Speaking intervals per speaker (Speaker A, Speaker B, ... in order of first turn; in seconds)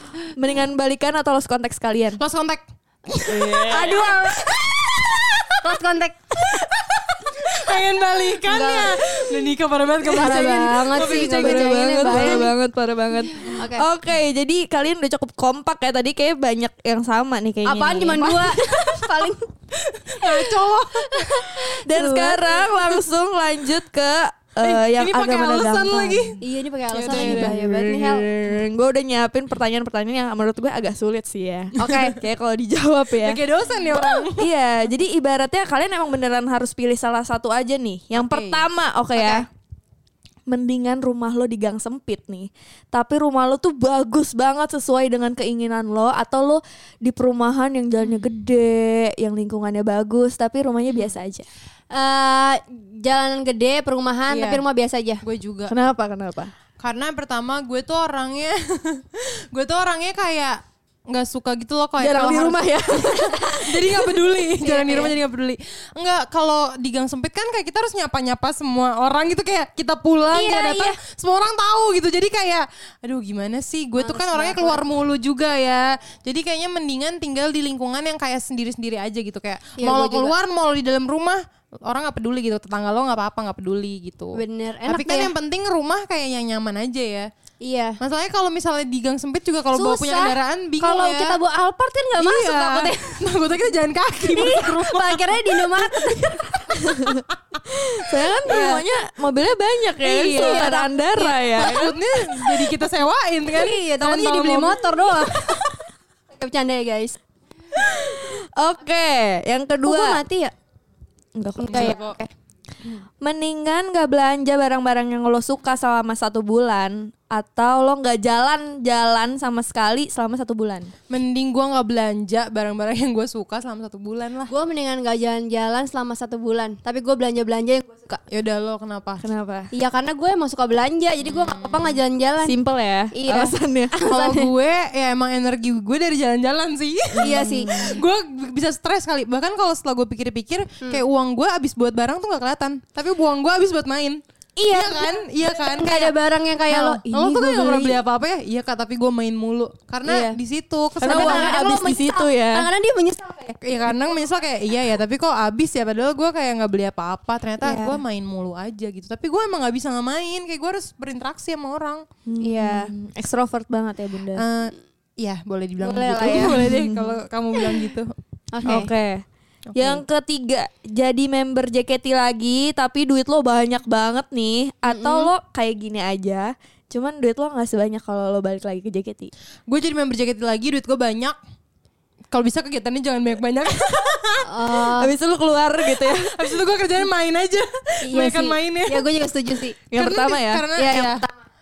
Speaker A: 0.3-2.2, 3.3-4.1, 11.0-19.0, 21.8-26.4, 27.1-39.4, 40.5-51.5, 55.7-56.5, 62.0-64.1, 96.8-102.7, 107.8-110.2, 111.3-112.0, 113.2-120.9, 129.2-129.7, 132.4-133.9, 137.1-138.0, 151.0-152.7, 157.6-158.0, 162.3-164.4, 166.2-167.2, 168.6-169.2, 169.7-179.3, 185.0-186.6, 189.9-190.7
Speaker B: 2.2-5.7, 6.4-12.5, 19.9-21.6, 24.6-26.4, 26.9-27.6, 31.8-32.1, 33.1-34.5, 38.1-38.6, 54.3-54.6, 55.2-55.7, 56.8-87.3, 88.0-91.4, 92.2-96.4, 98.5-98.8, 101.5-105.7, 111.7-112.2, 121.1-124.5, 128.3-129.2, 131.2-132.0, 134.1-146.2, 146.7-151.6, 153.6-162.0, 164.3-168.1, 169.7-170.0, 179.7-181.4, 182.3-184.5, 185.9-189.1, 189.9-191.2
Speaker C: 3.6-4.6, 5.6-6.2, 8.4-9.0, 10.0-12.5, 13.4-13.8, 17.6-19.4, 20.2-22.6, 26.4-28.3, 31.8-32.1, 39.1-39.4, 51.9-55.2, 64.6-65.1, 70.3-71.0, 74.0-74.8, 79.8-80.3, 84.3-85.3, 87.6-88.0, 89.7-93.2, 94.2-96.9, 98.5-98.8, 100.0-101.5, 103.5-105.5, 106.3-107.2, 109.8-110.5, 111.6-112.3, 124.5-128.2, 129.7-132.6, 133.1-134.5, 137.2-137.9, 144.6-148.0, 150.0-150.4, 151.0-154.0, 162.4-162.9, 165.8-166.7, 168.5-168.9, 174.9-175.3, 184.5-185.1, 188.0-189.8, 190.8-191.3